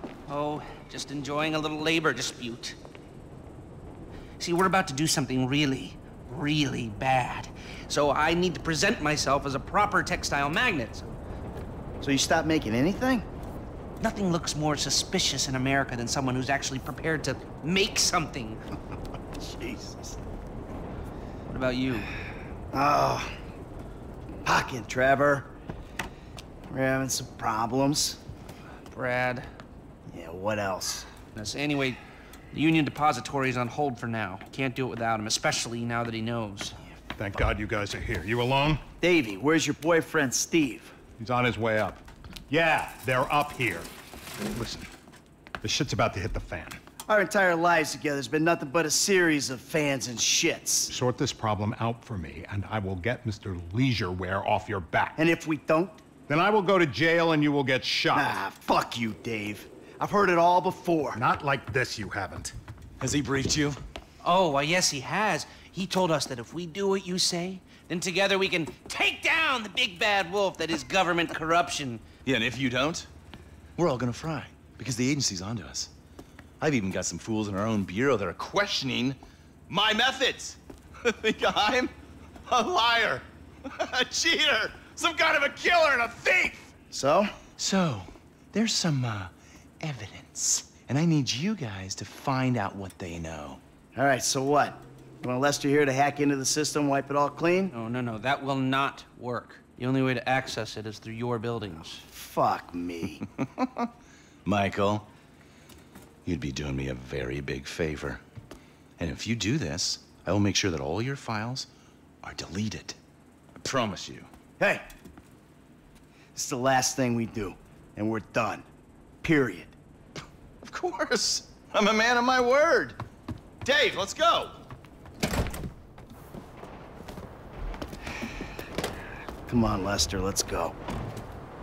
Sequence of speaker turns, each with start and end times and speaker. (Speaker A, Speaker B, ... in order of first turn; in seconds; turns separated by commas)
Speaker A: 0.3-2.8, Speaker A: 4.4-11.1, Speaker B: 12.0-13.2, Speaker A: 14.0-18.6, Speaker B: 19.4-20.2, Speaker A: 21.5-22.1, Speaker B: 22.7-23.3, Speaker B: 24.4-25.5, Speaker B: 26.7-28.2, Speaker A: 28.9-29.5, Speaker B: 30.1-31.1, Speaker A: 31.3-32.0, Speaker A: 32.5-36.8, Speaker C: 37.1-38.8, Speaker B: 39.0-40.9, Speaker C: 41.2-43.9, Speaker C: 44.5-44.9, Speaker C: 45.6-46.8, Speaker B: 47.1-50.9, Speaker C: 50.9-55.2, Speaker B: 55.2-56.0, Speaker C: 56.3-58.4, Speaker B: 58.1-61.2, Speaker C: 61.1-62.5, Speaker D: 63.0-63.8, Speaker A: 64.2-72.0, Speaker D: 72.2-73.1, Speaker D: 73.8-75.9, Speaker D: 76.6-81.9, Speaker D: 82.5-86.7, Speaker B: 86.9-87.3, Speaker D: 87.6-93.6, Speaker B: 93.9-97.7, Speaker A: 97.7-102.0, Speaker B: 102.1-103.2, Speaker D: 104.5-105.0, Speaker D: 106.2-108.2, Speaker D: 109.0-111.7, Speaker D: 112.2-113.0, Speaker D: 113.6-114.3, Speaker B: 116.3-118.6, Speaker B: 119.2-119.7, Speaker D: 120.6-123.0, Speaker D: 123.6-124.5, Speaker B: 129.5-130.7